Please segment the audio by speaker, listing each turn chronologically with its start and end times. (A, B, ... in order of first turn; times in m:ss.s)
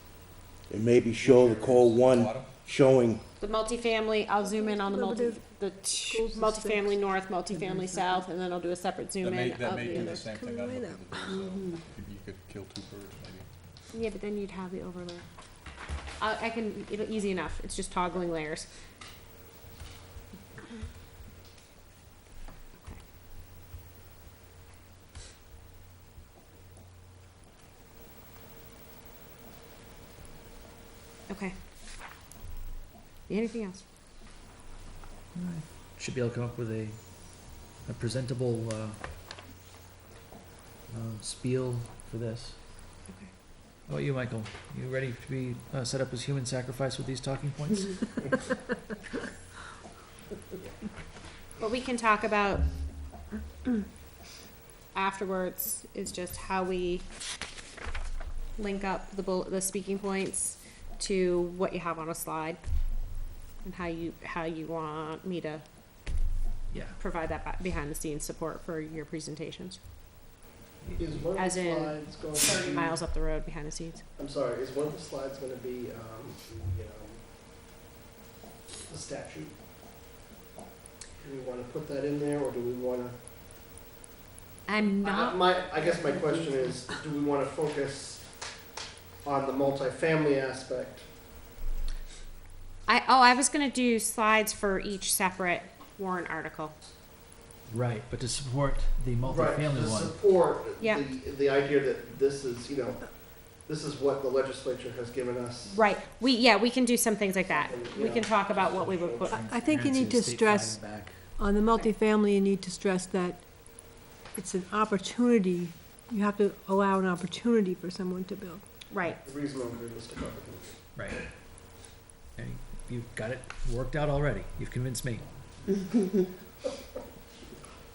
0:00.7-0:03.2 A
0:01.2-0:02.5 B
0:03.4-0:10.2 C
0:04.4-0:05.4 D
0:06.1-0:06.9 D
0:09.2-0:13.5 B
0:10.2-0:11.4 D
0:13.9-0:15.2 C
0:16.2-0:18.7 C
0:31.3-0:31.6 C
0:33.3-0:33.8 C
0:35.3-0:37.0 E
0:37.8-0:39.0 E
0:40.9-0:42.6 E
0:43.9-0:48.3 E
0:51.6-0:52.6 C
0:54.9-0:57.1 C
0:58.6-1:02.6 C
1:03.6-1:05.6 C
1:06.7-1:07.0 E
1:07.0-1:09.8 C
1:10.8-1:11.3 E
1:11.0-1:13.0 F
1:11.4-1:14.0 C
1:14.2-1:17.2 F
1:18.9-1:19.6 F
1:21.2-1:23.2 F
1:24.7-1:26.8 C
1:24.9-1:28.3 F
1:29.2-1:31.1 F
1:32.9-1:36.8 C
1:37.7-1:40.2 E
1:39.2-1:45.8 F
1:45.7-1:49.4 C
1:47.5-1:49.4 F
1:49.3-1:51.3 E
1:49.3-1:50.8 D
1:51.4-1:53.4 D
1:54.3-1:58.6 D
1:58.9-1:59.2 C
1:59.2-2:00.8 F
2:01.0-2:01.2 E
2:02.4-2:05.2 E